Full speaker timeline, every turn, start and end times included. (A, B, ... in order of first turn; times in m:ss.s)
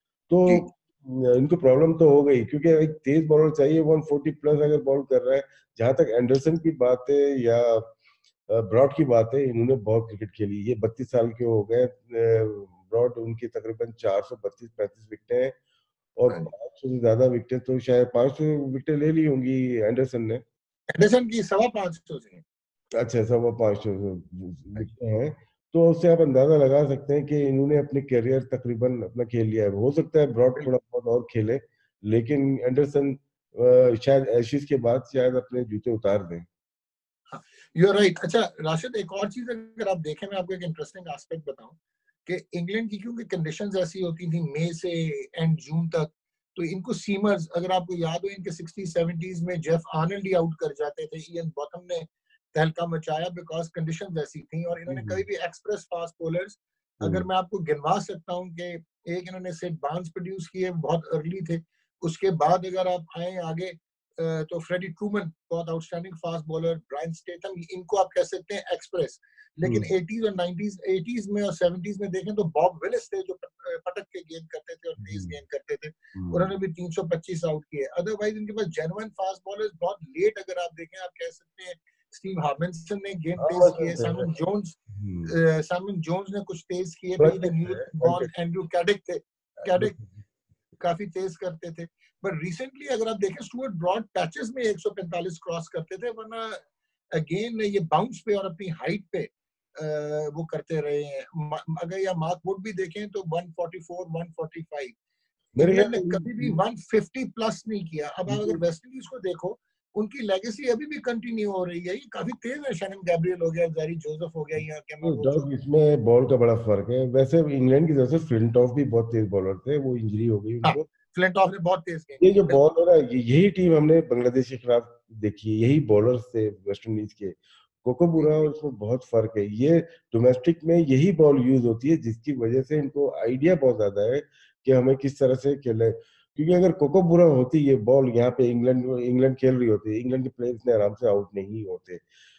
0:00.3-0:07.9 A
0:08.5-0:15.6 A
0:16.2-0:20.4 A
0:20.9-0:22.4 B
0:23.0-0:36.5 A
0:37.3-1:29.9 B
0:54.9-0:55.2 A
0:57.0-0:57.3 A
1:09.6-1:09.9 A
1:15.0-1:15.4 A
1:16.1-1:16.5 A
1:23.4-1:24.3 A
1:24.9-1:25.3 A
1:27.2-1:28.3 A
1:29.6-1:30.2 A
1:30.8-1:36.6 B
1:37.2-1:45.0 B
1:45.6-1:55.5 B
1:45.6-1:46.6 A
1:48.3-1:48.6 A
1:55.0-2:00.8 A
2:00.6-2:02.6 B
2:02.2-2:22.0 A
2:08.1-2:08.5 B